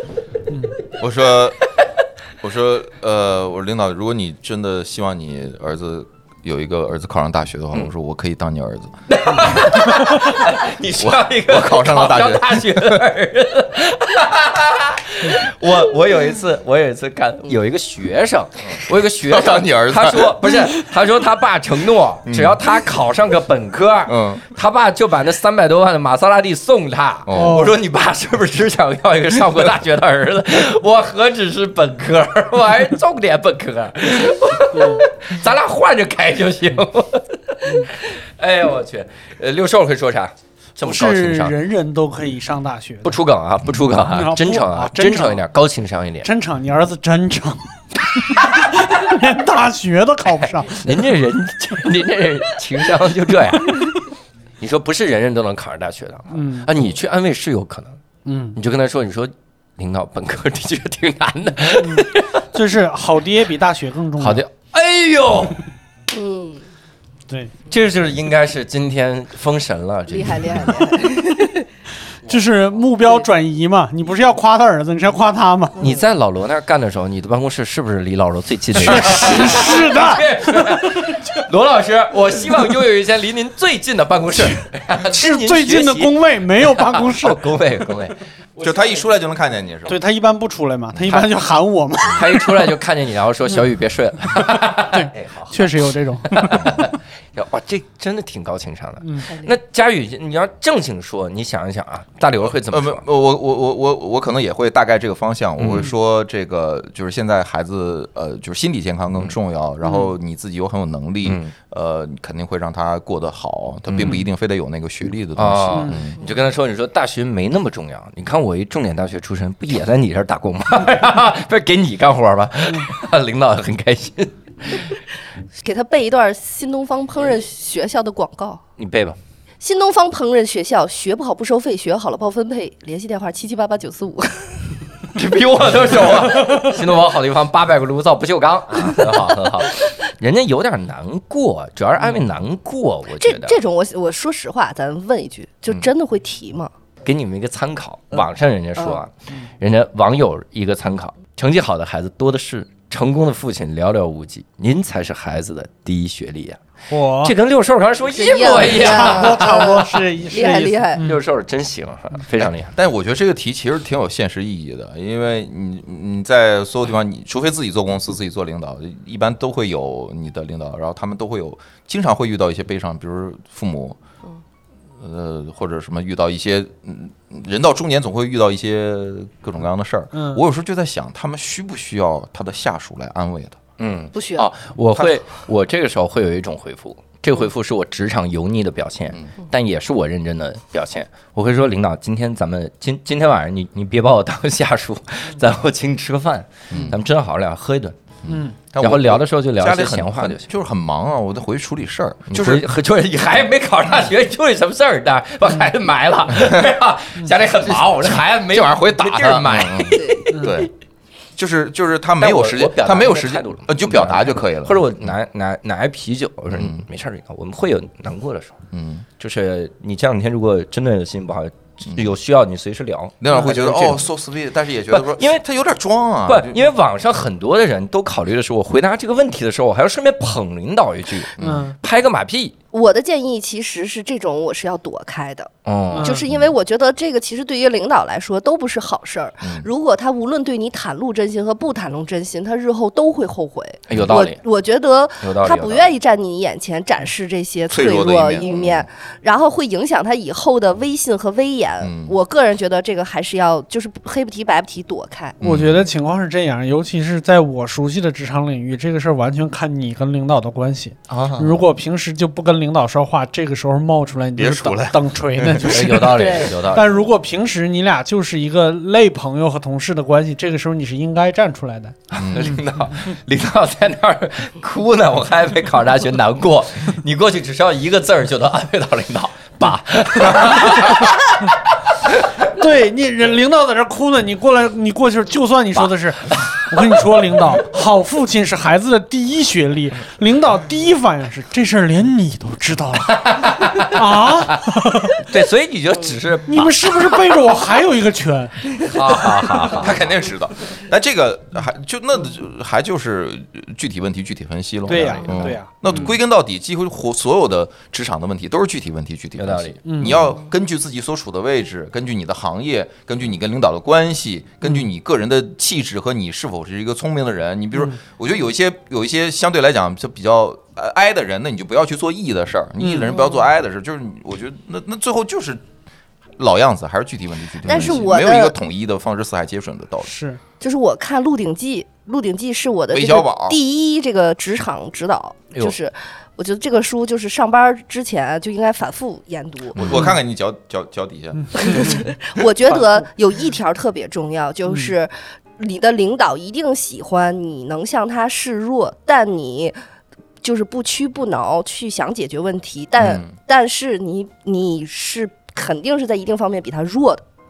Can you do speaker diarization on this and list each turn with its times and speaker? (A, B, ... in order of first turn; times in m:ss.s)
0:01.0-0:01.6 A
0:02.4-0:09.0 A
0:09.1-0:41.6 B
0:11.0-0:13.0 A
0:18.8-0:20.7 A
0:22.2-0:22.6 A
0:24.1-0:24.4 A
0:27.3-0:27.7 A
0:27.3-0:27.8 C
0:40.8-0:43.2 C
0:43.0-0:46.3 B
0:44.0-0:45.4 C
0:46.2-0:51.0 C
0:50.7-0:54.0 B
0:54.6-0:58.0 B
0:56.3-0:56.7 C
0:58.3-0:58.6 C
0:58.6-1:02.4 B
1:01.7-1:04.4 C
1:04.2-1:05.6 B
1:06.1-1:06.6 D
1:07.7-1:10.8 B
1:10.1-1:11.7 D
1:12.3-1:15.8 C
1:15.8-1:28.9 B
1:18.7-1:21.4 C
1:25.0-1:27.4 C
1:28.6-1:30.0 A
1:29.9-1:32.7 C
1:32.1-1:43.0 B
1:34.7-1:36.8 C
1:39.0-1:39.3 C
1:42.7-1:56.2 A
1:45.6-1:45.9 B
1:51.2-1:51.5 B
1:53.9-1:54.2 B
1:55.4-2:04.8 B
1:55.7-1:56.0 C
2:05.6-2:08.6 D
2:08.8-2:09.2 B
2:09.6-2:14.5 D
2:15.2-2:23.6 B
2:23.2-2:26.7 D
2:27.0-2:36.6 B
2:36.9-2:37.3 C
2:37.2-2:39.8 B
2:38.1-2:41.0 D
2:38.5-2:41.2 C
2:41.0-2:42.7 B
2:42.7-2:54.0 A
2:55.0-3:03.6 A
3:00.1-3:00.4 C
3:03.8-3:18.0 B
3:04.1-3:04.5 D
3:16.7-3:17.0 A
3:18.2-3:22.6 A
3:18.3-3:18.6 C
3:18.8-3:20.5 B
3:22.3-3:30.5 B
3:27.7-3:30.7 A
3:29.9-3:30.4 D
3:31.4-3:35.1 A
3:32.2-3:38.6 B
3:36.5-3:36.8 A
3:38.7-3:39.0 A
3:39.2-3:44.1 B
3:43.2-3:46.6 A
3:44.9-3:45.4 B
3:46.3-3:52.6 B
3:51.4-3:51.7 A
3:51.4-3:51.8 C
3:52.7-3:55.5 D
3:55.6-3:56.2 B
3:55.9-3:56.2 C
3:56.0-4:15.4 D
3:56.3-3:56.5 A
3:59.4-3:59.7 A
4:03.9-4:04.4 B
4:05.2-4:05.9 B
4:07.7-4:08.9 A
4:11.8-4:12.2 A
4:15.4-4:15.8 A
4:15.4-4:32.0 C
4:21.1-4:21.6 B
4:24.4-4:25.6 A
4:25.6-4:26.9 B
4:26.1-4:26.5 D
4:32.1-4:41.5 B
4:32.2-4:32.6 A
4:40.6-4:40.9 C
4:42.4-4:55.2 C
4:45.7-4:46.5 B
4:53.1-4:54.6 B
4:55.2-4:56.9 B
4:56.5-4:58.8 C
4:58.9-5:00.1 B
4:59.7-5:25.6 A
5:04.9-5:06.1 C
5:04.9-5:06.1 B
5:09.4-5:09.8 B
5:09.8-5:10.2 C
5:22.8-5:23.1 C
5:23.1-5:23.4 D
5:26.4-5:30.1 A
5:27.6-5:28.6 D
5:30.1-5:30.4 C
5:30.6-5:40.0 D
5:32.9-5:33.6 A
5:39.8-5:42.0 A
5:41.5-5:49.8 D
5:50.4-5:57.2 D
5:53.0-5:53.3 A